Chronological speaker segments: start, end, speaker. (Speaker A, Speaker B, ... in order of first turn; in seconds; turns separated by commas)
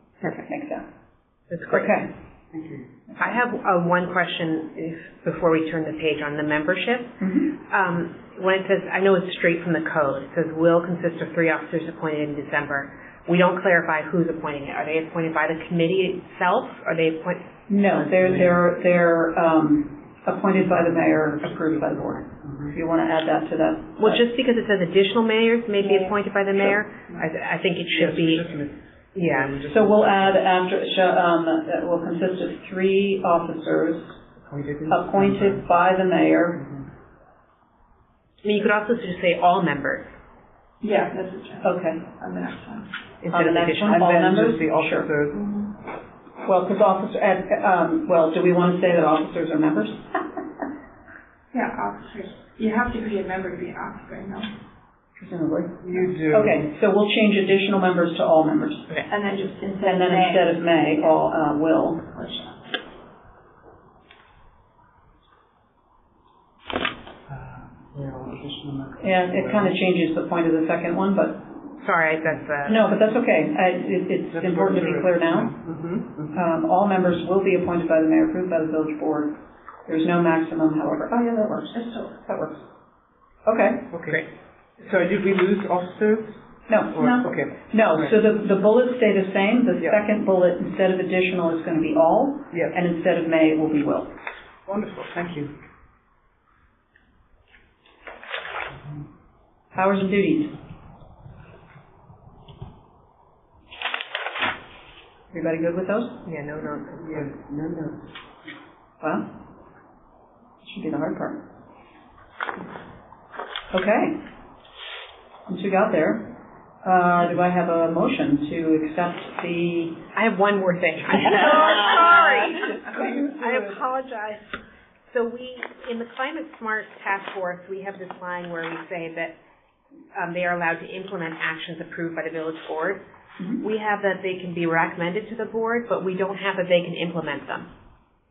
Speaker A: 0.2-0.8, Speaker B: 1.5-2.0, Speaker A: 1.7-2.1, Speaker C: 2.5-2.8, Speaker B: 3.2-17.5, Speaker A: 7.2-7.5, Speaker A: 17.7-24.2, Speaker C: 18.2-18.5, Speaker C: 22.4-22.7, Speaker B: 24.0-28.5, Speaker D: 25.8-26.1, Speaker C: 27.9-30.4, Speaker B: 29.1-29.6, Speaker A: 29.7-34.2, Speaker C: 34.5-35.6, Speaker A: 34.9-36.7, Speaker B: 38.4-40.1, Speaker D: 40.8-42.9, Speaker A: 41.6-42.0, Speaker B: 43.2-44.0, Speaker A: 43.3-45.1, Speaker C: 43.5-45.7, Speaker A: 46.4-50.2, Speaker D: 51.5-54.5, Speaker A: 55.2-59.0, Speaker C: 55.8-56.7, Speaker D: 59.1-61.2, Speaker A: 59.8-62.0, Speaker D: 62.0-62.7, Speaker C: 67.3-69.7, Speaker A: 69.0-71.6, Speaker B: 71.8-72.9, Speaker A: 72.6-75.5, Speaker C: 74.3-76.3, Speaker A: 76.3-82.6, Speaker D: 81.7-82.1, Speaker A: 83.4-83.9, Speaker C: 83.9-84.2, Speaker C: 84.8-86.4, Speaker A: 86.7-94.1, Speaker C: 86.9-88.1, Speaker C: 94.7-95.5, Speaker A: 99.7-100.5, Speaker A: 105.3-106.2, Speaker B: 106.2-107.3, Speaker C: 107.0-108.0, Speaker A: 109.0-109.3, Speaker A: 110.6-111.4, Speaker A: 113.7-114.2, Speaker A: 115.5-120.0, Speaker B: 120.1-124.5, Speaker A: 121.3-123.8, Speaker B: 125.1-129.3, Speaker B: 130.1-133.0, Speaker B: 133.6-137.7